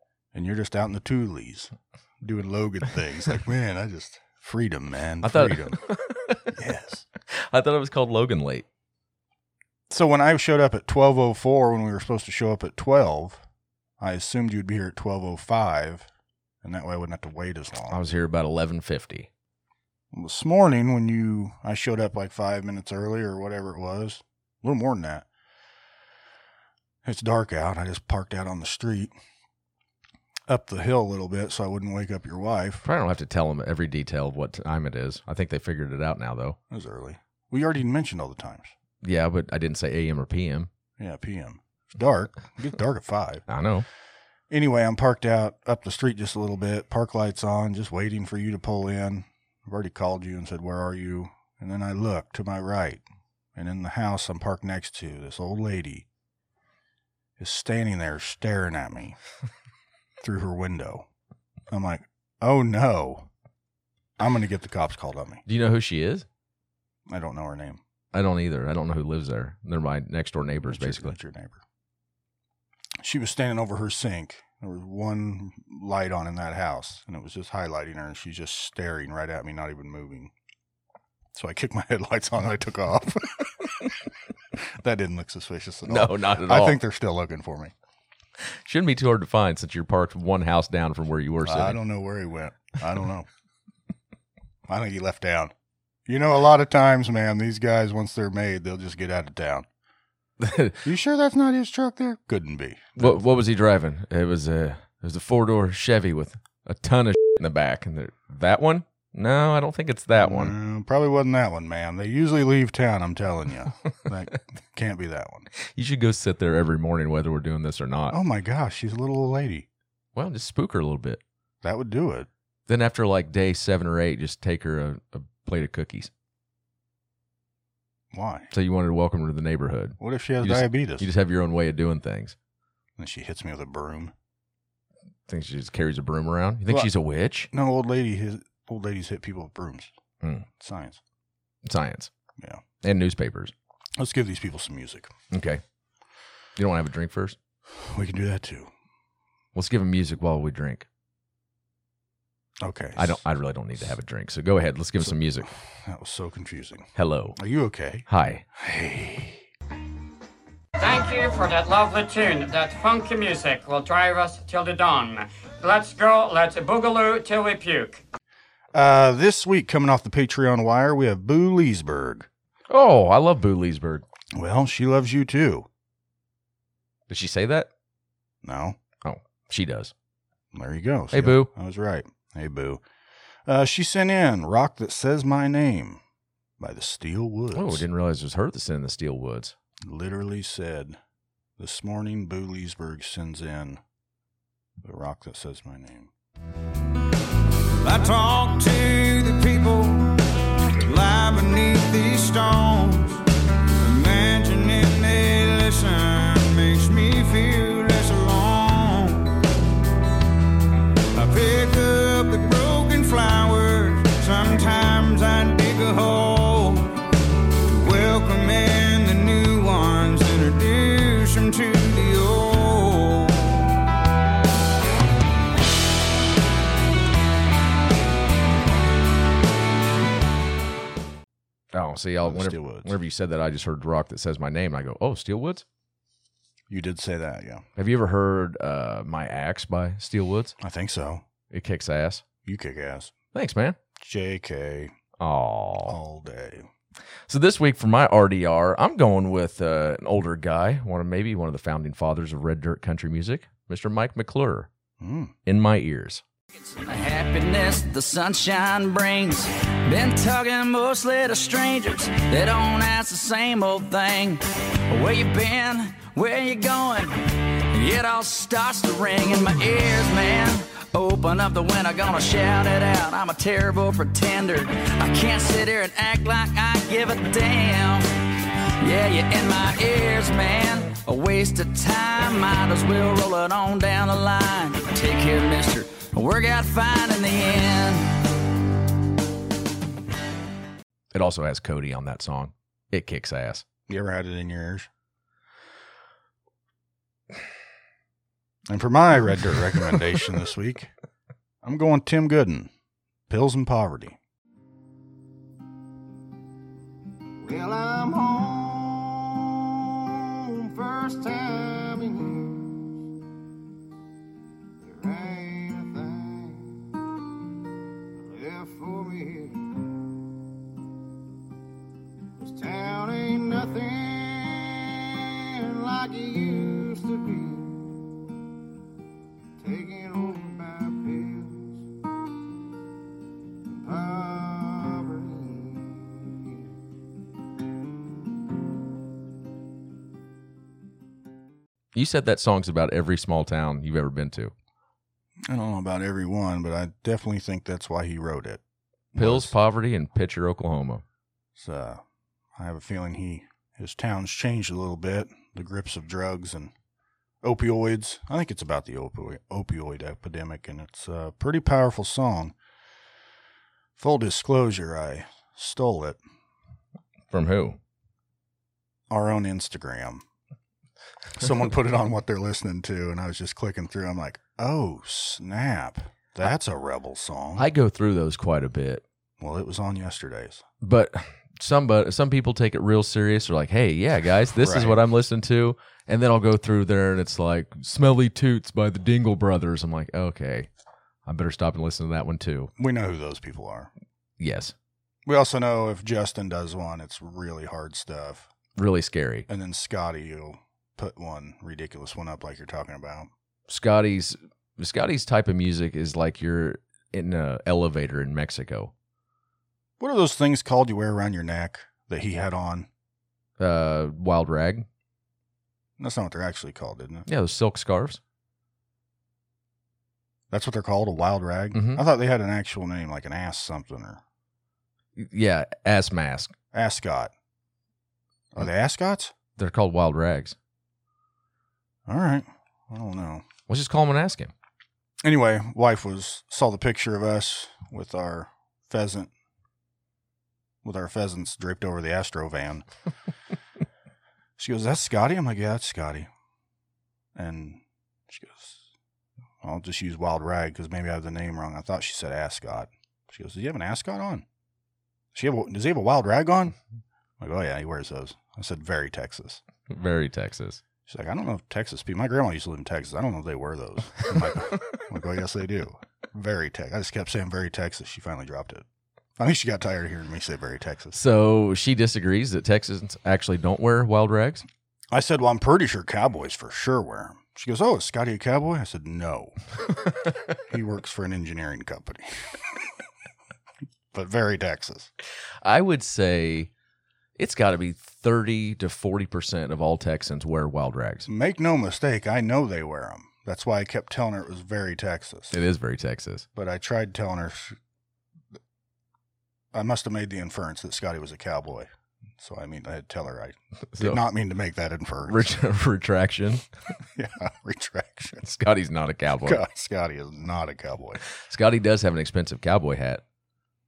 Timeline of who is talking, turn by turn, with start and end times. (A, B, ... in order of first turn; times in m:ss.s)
0:00.3-0:05.8 A
0:05.2-0:06.5 B
0:06.5-0:07.0 A
0:07.3-0:08.6 B
0:09.9-0:13.4 A
0:14.0-0:16.1 A
0:16.6-0:18.0 A
0:17.9-0:19.3 B
0:20.1-0:25.2 A
0:27.0-0:29.1 A
0:30.5-0:32.8 A
0:32.8-0:36.6 B
0:36.7-0:38.7 A
0:39.0-0:40.7 B
0:41.0-0:43.4 A
0:43.5-0:43.8 B
0:44.5-0:53.0 A
0:53.6-0:56.0 A
0:57.4-0:59.2 A
1:00.2-1:01.1 A
1:01.7-1:03.3 A
1:04.2-1:05.4 A
1:05.4-1:06.2 B
1:07.1-1:07.8 A
1:08.1-1:11.2 B
1:10.6-1:11.6 A
1:13.0-1:20.3 A
1:21.3-1:23.7 A
1:24.6-1:27.7 A
1:25.8-1:26.8 B
1:28.6-1:31.8 B
1:31.4-1:33.3 A
1:34.7-1:35.5 A
1:36.1-1:39.7 A
1:40.4-1:40.8 B
1:40.8-1:43.2 A
1:43.0-1:50.5 B
1:50.2-1:55.5 A
1:55.6-1:58.2 B
1:58.1-1:59.7 A
2:00.1-2:01.2 B
2:01.6-2:02.3 A
2:02.7-2:06.1 B
2:08.1-2:08.5 A
2:08.5-2:12.3 B
2:10.0-2:11.1 A
2:13.0-2:14.1 A
2:15.3-2:17.5 B
2:17.5-2:19.9 A
2:20.5-2:21.0 A
2:21.6-2:22.1 B
2:22.8-2:23.5 B
2:24.0-2:25.1 A
2:25.3-2:25.6 B
2:26.6-2:27.4 B
2:27.7-2:28.7 A
2:29.5-2:30.9 B
2:32.6-2:33.2 A
2:33.0-2:35.5 B
2:35.0-2:39.4 A
2:37.0-2:37.4 B
2:38.1-2:38.4 B
2:40.8-2:48.0 C
2:48.7-2:52.3 A
2:52.7-2:54.0 B
2:54.3-2:55.7 A
2:57.1-2:57.7 B
2:58.4-2:58.8 A
2:59.0-2:59.9 B
3:00.5-3:02.8 A
3:01.1-3:01.5 B
3:03.4-3:06.0 A
3:06.6-3:07.8 A
3:07.5-3:09.5 B
3:09.8-3:11.0 A
3:11.6-3:13.8 A
3:14.8-3:16.1 A
3:17.8-3:20.0 D
3:20.8-3:23.2 D
3:23.8-3:29.3 D
3:31.2-3:36.8 D
3:37.7-3:43.3 D
3:51.7-3:55.6 B
3:52.2-3:52.9 A
3:56.7-3:57.6 A
3:57.8-4:00.5 B
4:00.6-4:01.2 A
4:01.5-4:02.2 B
4:02.4-4:03.1 A
4:03.3-4:03.8 B
4:04.0-4:04.9 A
4:05.2-4:06.0 B
4:05.8-4:06.7 A
4:07.3-4:14.7 B
4:15.0-4:15.3 A
4:15.4-4:16.2 B
4:16.6-4:38.1 E
4:38.8-4:48.2 E
4:51.1-4:53.6 B
4:53.9-4:54.9 A
4:58.7-5:00.9 A
5:01.6-5:02.7 A
5:03.3-5:04.2 A
5:07.5-5:08.5 D
5:10.6-5:12.5 D
5:15.0-5:16.6 D
5:18.4-5:19.7 D
5:22.4-5:24.5 D
5:25.5-5:27.7 D
5:29.6-5:31.7 D
5:33.8-5:35.9 D
5:41.9-5:44.5 B
5:45.5-5:48.6 A
5:49.1-5:49.5 A
5:49.2-5:51.0 B
5:51.6-5:52.0 A
5:52.6-5:56.7 A
5:57.4-6:02.5 A
6:04.0-6:06.2 A
6:07.3-6:07.8 B
6:09.1-6:10.2 A
6:11.4-6:17.7 A
6:17.6-6:19.0 B
6:19.4-6:20.6 A
6:20.8-6:30.7 B
6:24.6-6:25.0 A
6:31.2-6:32.7 B
6:32.8-6:33.9 A
6:34.4-6:34.7 B
6:35.2-6:38.5 A
6:38.8-6:39.5 B
6:39.5-6:43.3 A
6:43.7-6:48.9 B
6:50.0-6:52.9 A
6:53.6-6:54.9 B
6:56.0-6:57.3 A
6:57.3-6:58.2 B
7:00.5-7:04.2 A
7:01.7-7:02.0 B
7:05.2-7:06.5 B
7:06.7-7:07.3 A
7:08.5-7:09.3 A
7:09.6-7:10.6 B
7:12.1-7:13.4 A
7:13.7-7:14.5 B
7:15.2-7:19.3 A
7:20.8-7:22.8 A
7:24.6-7:26.3 A
7:27.4-7:28.8 A
7:29.6-7:34.4 A
7:35.3-7:36.8 A
7:37.4-7:39.6 A
7:39.9-7:40.8 B
7:41.1-7:48.8 A
7:49.4-7:51.2 A
7:51.1-7:54.6 B
7:55.1-7:59.5 A
8:00.6-8:02.6 A
8:04.1-8:05.1 A
8:05.6-8:06.7 B
8:07.4-8:11.3 B
8:11.3-8:15.6 A
8:15.5-8:16.4 B
8:16.5-8:17.8 A
8:19.7-8:25.5 A
8:23.9-8:24.2 B
8:25.3-8:26.6 B
8:27.1-8:28.4 A
8:28.4-8:29.6 B
8:29.4-8:31.2 A
8:31.4-8:33.2 B